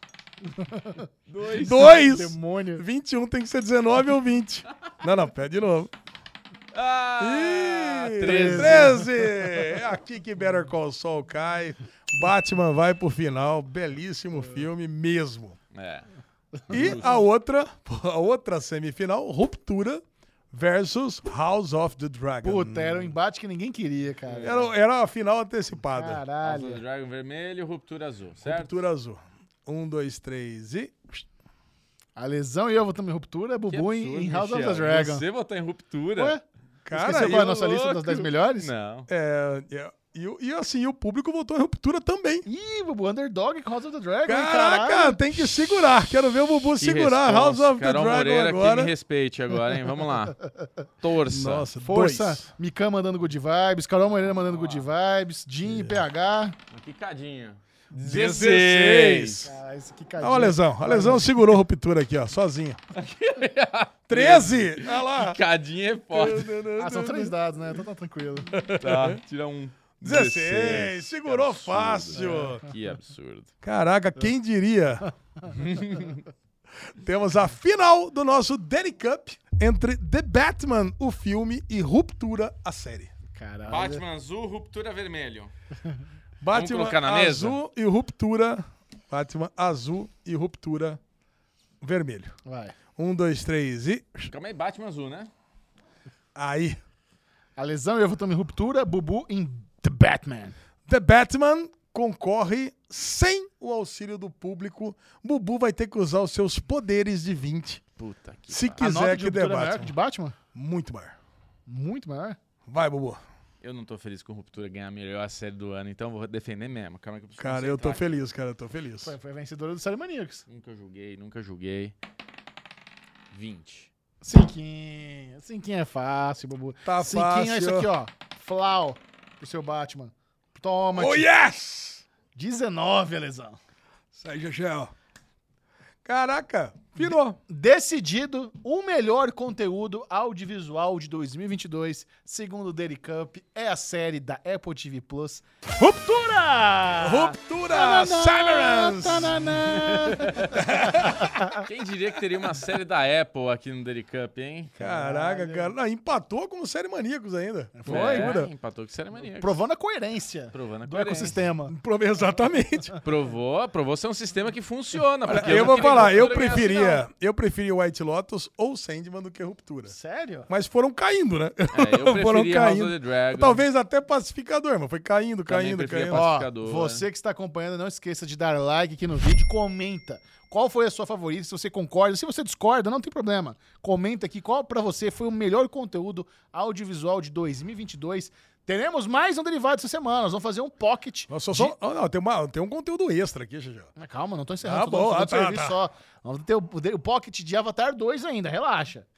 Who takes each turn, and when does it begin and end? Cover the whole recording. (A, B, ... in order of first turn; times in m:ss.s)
0:00.5-0:01.1 A
0:01.3-0:02.0 B
0:01.4-0:05.9 C
0:01.7-0:02.8 A
0:06.7-0:09.1 B
0:07.2-0:15.6 C
0:08.2-0:09.0 A
0:15.7-0:16.1 B
0:16.7-0:17.2 B
0:16.7-0:23.1 C
0:22.4-0:24.7 A
0:24.3-0:24.7 B
0:24.4-0:26.2 C
0:25.9-0:26.8 A
0:26.4-0:28.8 B
0:28.4-0:31.2 C
0:32.2-0:35.2 A
0:33.7-0:36.4 B
0:36.2-0:38.7 A
0:36.8-0:38.2 C
0:37.1-0:39.1 B
0:39.1-0:42.4 C
0:42.4-0:45.6 A
0:44.3-0:48.9 C
0:46.8-0:50.4 B
0:51.0-0:51.7 B
0:51.3-0:52.5 C
0:51.8-0:56.6 A
0:54.3-0:54.8 B
0:55.6-0:56.0 C
0:56.7-0:59.5 B
0:58.0-0:59.5 C
0:59.4-1:01.3 A
1:00.2-1:02.8 C
1:02.9-1:06.6 B
1:04.1-1:05.4 C
1:06.1-1:07.4 C
1:06.8-1:08.6 A
1:08.5-1:09.2 C
1:08.8-1:13.5 B
1:10.0-1:12.6 C
1:12.1-1:12.6 A
1:13.6-1:15.1 C
1:15.4-1:16.2 B
1:16.9-1:23.1 C
1:23.3-1:24.0 A
1:23.7-1:25.5 B
1:26.4-1:31.0 C
1:26.5-1:27.6 B
1:31.8-1:32.3 C
1:32.4-1:32.8 A
1:33.0-1:34.3 C
1:34.3-1:35.3 B
1:36.4-1:36.8 C
1:37.6-1:40.6 A
1:40.9-1:47.8 C
1:48.0-1:48.8 B
1:48.5-1:49.9 C
1:48.8-1:50.4 A
1:50.5-1:51.2 C
1:51.7-1:52.4 A
1:52.7-1:53.2 C
1:53.6-1:58.2 B
1:57.4-1:59.1 C
1:59.0-2:00.4 A
2:00.5-2:01.9 B
2:03.3-2:03.9 B
2:04.2-2:11.3 A
2:06.8-2:07.9 C
2:10.9-2:12.0 C
2:12.4-2:13.6 A
2:14.1-2:14.9 C
2:16.0-2:17.4 C
2:17.0-2:31.6 A
2:27.0-2:31.4 C
2:30.2-2:30.6 B
2:31.5-2:34.8 B
2:34.8-2:38.5 C
2:34.8-2:35.7 A
2:37.8-2:38.4 A
2:37.9-2:39.6 B
2:39.2-2:41.7 A
2:40.5-2:41.4 B
2:41.7-2:42.9 C
2:43.0-2:47.0 B
2:45.3-2:49.9 C
2:45.4-2:46.8 A
2:49.9-2:50.5 A
2:50.5-2:56.3 C
2:51.7-2:53.6 B
2:55.5-2:57.1 B
2:56.1-3:11.7 A
3:11.3-3:13.9 C
3:14.0-3:19.1 A
3:14.6-3:15.8 C